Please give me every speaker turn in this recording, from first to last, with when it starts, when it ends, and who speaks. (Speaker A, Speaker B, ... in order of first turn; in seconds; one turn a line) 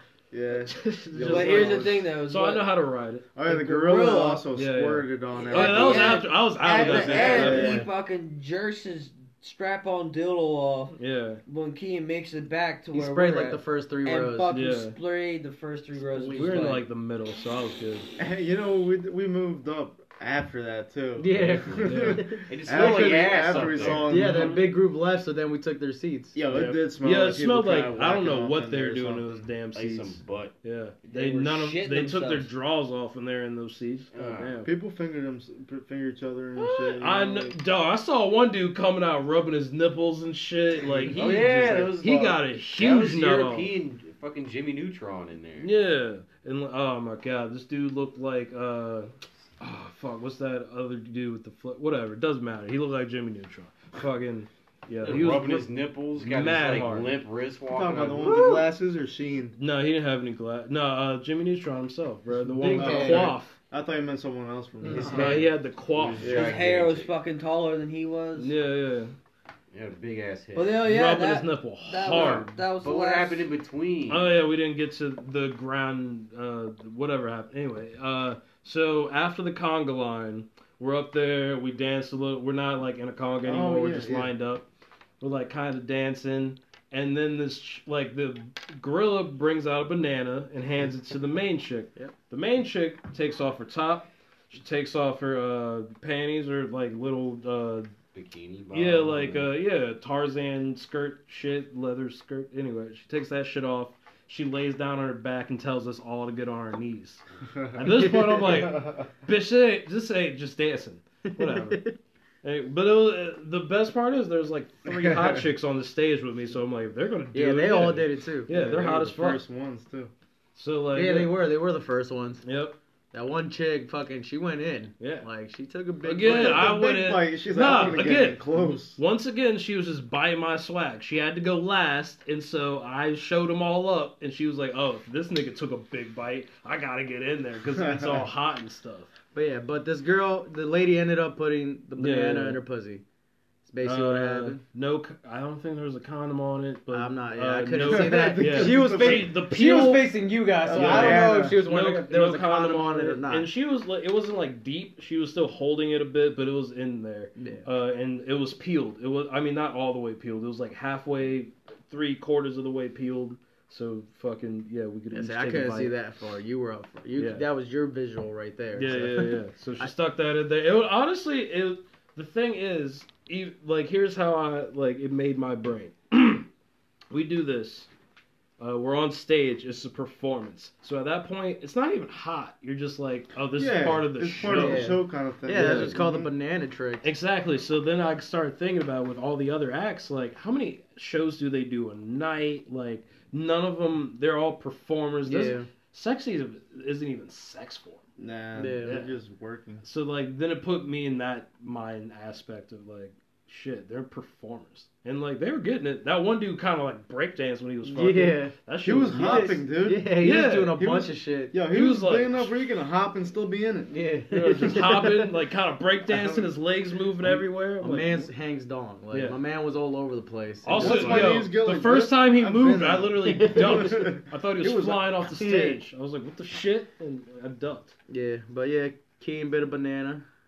Speaker A: 0.3-2.0
Speaker B: 0.7-3.3
Speaker C: 1.2-2.7
Speaker A: 3.3-7.9
Speaker C: 3.5-4.4
Speaker B: 4.5-7.9
Speaker C: 5.3-16.9
Speaker B: 10.9-11.4
Speaker D: 12.9-14.5
Speaker B: 14.5-14.9
Speaker B: 16.3-18.1
Speaker A: 18.2-24.7
Speaker D: 21.1-26.4
Speaker E: 21.3-24.1
Speaker B: 21.7-22.2
Speaker B: 23.5-24.6
Speaker A: 26.3-29.5
Speaker B: 26.5-34.7
Speaker E: 29.7-30.5
Speaker C: 31.0-32.5
Speaker E: 34.1-34.6
Speaker A: 34.6-37.6
Speaker B: 36.5-43.7
Speaker A: 41.0-42.0
Speaker E: 41.1-45.7
Speaker B: 45.6-57.2
Speaker E: 55.0-58.4
Speaker A: 57.7-59.6
Speaker C: 58.2-58.7
Speaker B: 59.6-63.5
Speaker D: 62.5-63.3
Speaker A: 62.7-65.4
Speaker D: 64.8-65.4
Speaker E: 64.9-67.1
Speaker B: 65.1-66.3
Speaker A: 66.2-66.6
Speaker C: 66.3-68.5
Speaker B: 68.4-69.1
Speaker E: 69.7-70.8
Speaker C: 70.5-73.5
Speaker B: 70.8-72.5
Speaker E: 72.1-74.4
Speaker B: 74.1-84.7
Speaker A: 83.4-84.3
Speaker B: 85.2-97.9
Speaker E: 98.1-99.5
Speaker B: 98.7-111.8
Speaker A: 107.5-109.1
Speaker D: 111.4-111.9
Speaker B: 112.4-119.4
Speaker A: 114.8-115.4
Speaker D: 117.3-118.5
Speaker A: 118.5-120.1
Speaker B: 120.5-121.3
Speaker D: 120.9-122.4
Speaker B: 122.4-122.8
Speaker D: 123.1-126.7
Speaker B: 125.0-125.3
Speaker B: 126.0-139.1
Speaker A: 126.2-129.0
Speaker A: 137.7-138.3
Speaker D: 139.3-143.0
Speaker B: 142.0-142.6
Speaker D: 143.7-144.6
Speaker B: 143.8-150.1
Speaker D: 146.9-153.5
Speaker A: 147.7-149.4
Speaker A: 150.6-151.6
Speaker B: 150.7-165.9
Speaker D: 157.3-157.7
Speaker D: 165.1-169.9
Speaker B: 167.2-167.4
Speaker B: 168.7-176.4
Speaker B: 177.1-177.9
Speaker B: 178.6-184.9
Speaker A: 183.5-186.3
Speaker D: 184.4-187.0
Speaker B: 185.5-186.0
Speaker B: 187.0-198.0
Speaker D: 195.2-195.7
Speaker A: 198.2-199.8
Speaker D: 198.5-199.0
Speaker B: 198.8-199.1
Speaker B: 199.8-209.6
Speaker D: 207.8-208.5
Speaker A: 208.8-210.2
Speaker D: 209.1-211.5
Speaker B: 210.2-210.8
Speaker A: 210.7-213.9
Speaker B: 211.6-212.6
Speaker D: 213.9-215.3
Speaker B: 214.3-218.3
Speaker A: 216.1-216.5
Speaker D: 217.8-221.3
Speaker B: 219.1-219.4
Speaker B: 220.6-227.9
Speaker A: 220.7-225.1
Speaker D: 223.2-224.1
Speaker D: 225.4-225.8
Speaker D: 228.1-230.2